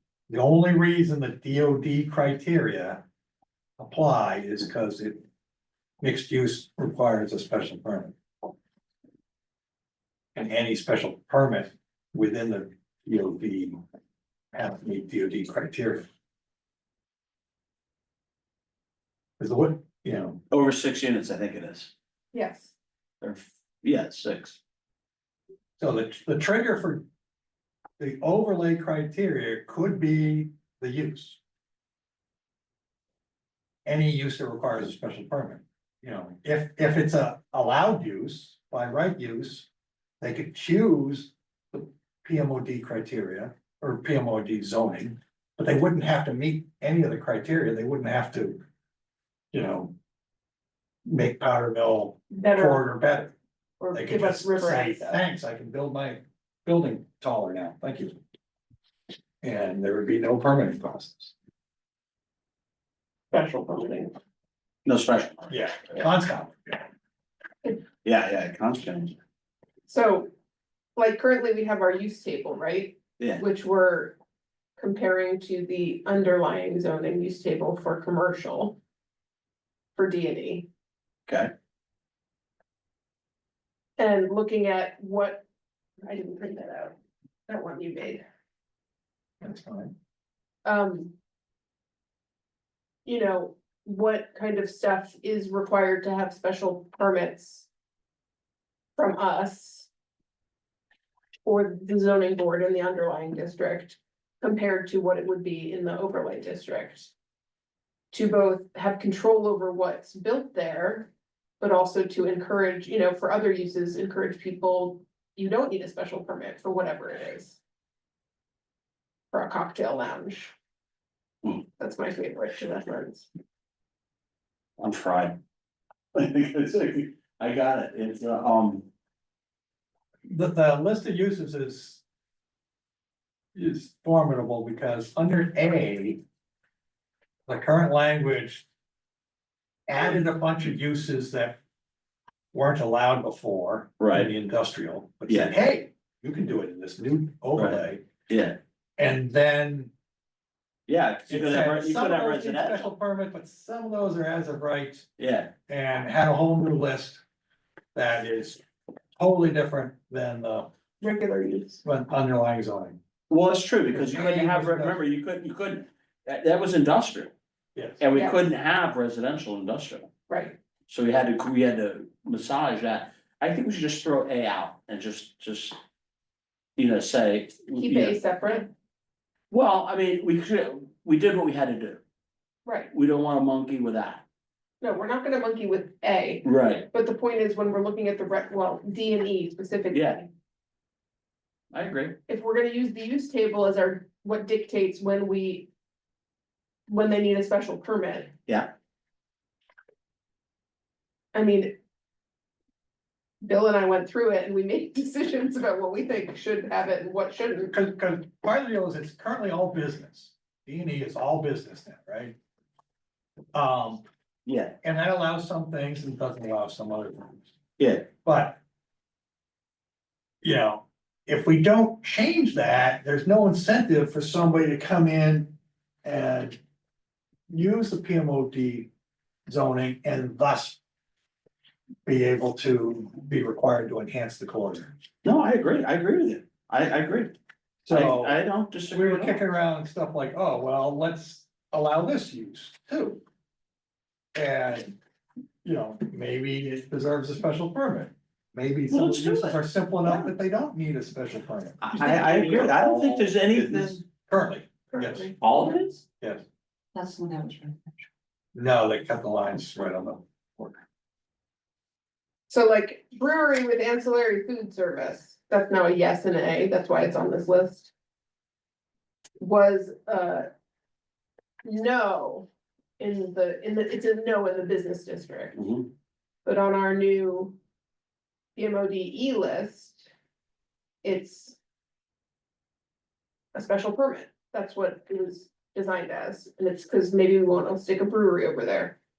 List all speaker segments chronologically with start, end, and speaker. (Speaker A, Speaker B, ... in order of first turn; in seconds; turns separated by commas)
Speaker A: 0.3-3.0, Speaker A: 3.8-5.2, Speaker A: 6.0-8.2, Speaker A: 10.3-13.8, Speaker A: 14.5-16.1, Speaker A: 19.4-20.4, Speaker B: 20.5-21.9, Speaker C: 22.3-22.7, Speaker B: 23.2-24.6, Speaker A: 25.8-27.1, Speaker A: 28.0-31.4, Speaker A: 33.9-39.7, Speaker A: 40.2-48.6, Speaker A: 49.5-49.9, Speaker A: 51.1-53.3, Speaker C: 52.3-52.8, Speaker C: 53.8-55.2, Speaker A: 53.9-58.2, Speaker A: 59.4-61.4, Speaker C: 63.3-64.1, Speaker B: 64.8-65.5, Speaker A: 65.5-66.9, Speaker B: 68.0-69.2, Speaker C: 69.9-70.3, Speaker C: 71.0-74.2, Speaker C: 74.8-78.8, Speaker C: 80.0-80.7, Speaker C: 84.0-85.5, Speaker C: 86.0-87.0, Speaker C: 87.5-88.2, Speaker A: 89.4-89.9, Speaker C: 90.7-91.2, Speaker C: 93.0-97.7, Speaker C: 99.0-99.9, Speaker C: 101.5-107.1, Speaker C: 108.1-117.6, Speaker C: 119.3-120.5, Speaker C: 121.8-123.3, Speaker B: 124.8-125.4, Speaker B: 126.2-128.9, Speaker A: 130.3-132.0, Speaker A: 133.6-136.2, Speaker A: 137.5-138.7, Speaker A: 139.9-141.6, Speaker A: 142.5-148.1, Speaker B: 144.0-144.3, Speaker B: 145.3-145.5, Speaker B: 147.6-148.6, Speaker A: 149.0-149.9, Speaker B: 150.9-152.9, Speaker A: 151.3-155.1, Speaker B: 155.2-155.5, Speaker A: 155.7-157.2, Speaker A: 157.9-158.6, Speaker A: 159.2-160.7, Speaker C: 161.0-161.8, Speaker A: 161.8-163.0, Speaker B: 163.3-167.3, Speaker A: 163.9-165.0, Speaker A: 167.8-168.0, Speaker B: 168.0-170.1, Speaker C: 168.1-168.4, Speaker C: 170.3-170.6, Speaker B: 170.9-175.8, Speaker B: 176.8-178.2, Speaker C: 177.8-178.7, Speaker B: 179.5-182.0, Speaker C: 182.7-182.9, Speaker B: 182.9-184.2, Speaker C: 184.8-190.3, Speaker B: 186.4-186.9, Speaker B: 189.9-190.2, Speaker B: 191.7-192.2, Speaker C: 192.3-195.7, Speaker C: 196.9-198.3, Speaker B: 198.5-198.7, Speaker C: 201.3-201.8, Speaker C: 203.4-207.7, Speaker A: 207.7-212.4, Speaker A: 213.5-214.0, Speaker B: 214.5-214.8, Speaker A: 214.8-217.5, Speaker B: 217.8-218.1, Speaker A: 218.2-218.6, Speaker A: 220.4-226.6, Speaker A: 227.5-228.9, Speaker A: 229.5-230.8, Speaker A: 232.1-234.9, Speaker B: 235.2-237.3, Speaker A: 237.8-238.4, Speaker B: 237.9-239.4, Speaker A: 238.9-243.2, Speaker A: 244.3-244.9, Speaker A: 245.6-252.0, Speaker B: 248.9-250.3, Speaker B: 251.8-254.0, Speaker D: 251.9-253.3, Speaker A: 253.5-255.3, Speaker C: 254.9-255.3, Speaker B: 255.4-256.0, Speaker A: 256.2-256.4, Speaker D: 256.9-258.1, Speaker A: 258.6-260.8, Speaker C: 262.5-267.9, Speaker C: 269.4-270.5, Speaker C: 271.6-275.6, Speaker B: 275.6-275.9, Speaker C: 276.4-277.6, Speaker C: 278.6-280.1, Speaker C: 281.0-281.6, Speaker C: 283.5-289.0